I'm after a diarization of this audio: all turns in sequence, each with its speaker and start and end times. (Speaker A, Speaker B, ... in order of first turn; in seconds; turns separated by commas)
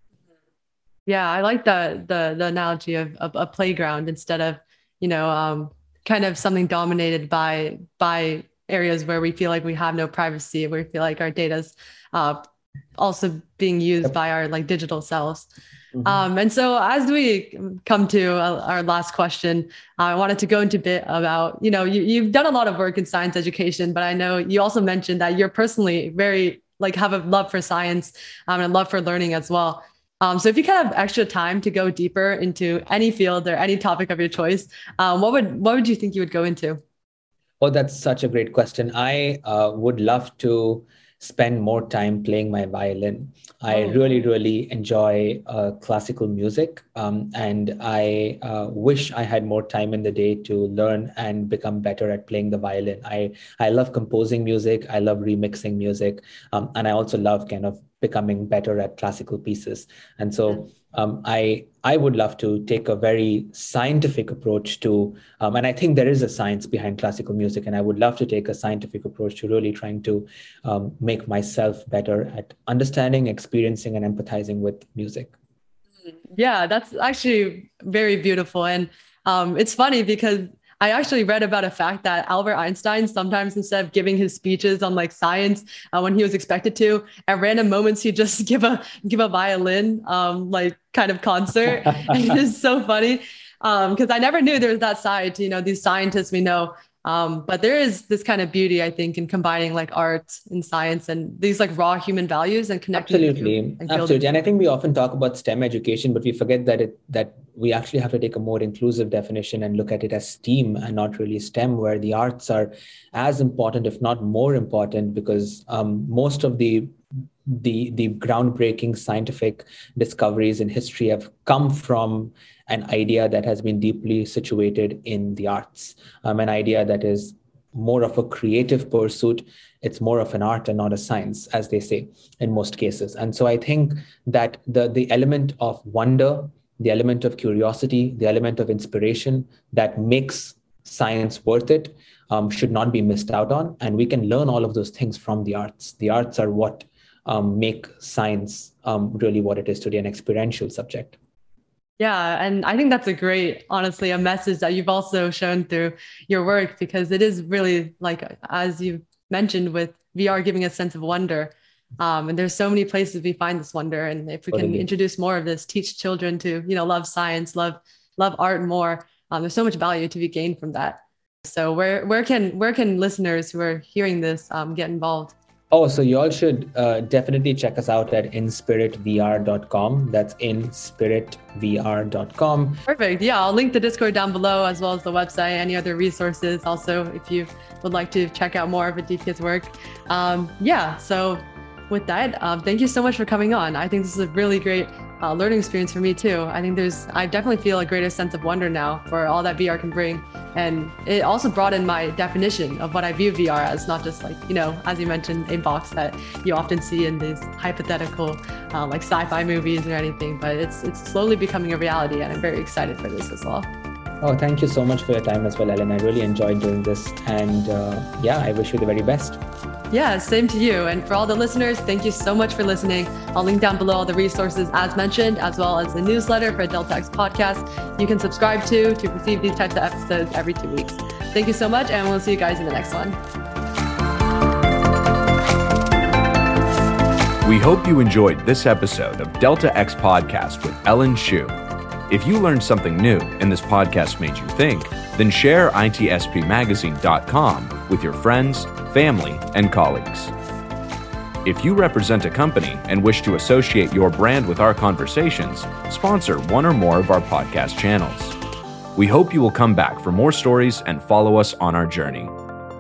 Speaker A: 1.1-12.4, Speaker A: 13.0-15.5, Speaker A: 16.0-36.8, Speaker B: 37.6-75.3, Speaker A: 76.3-104.2, Speaker B: 103.0-116.9, Speaker B: 117.5-151.2, Speaker A: 152.0-175.3, Speaker B: 164.5-164.9, Speaker B: 175.7-182.8, Speaker A: 182.9-213.7, Speaker B: 214.2-219.4, Speaker A: 219.9-233.2, Speaker C: 237.4-241.6, Speaker C: 242.1-250.3, Speaker C: 251.4-258.4, Speaker C: 259.0-262.4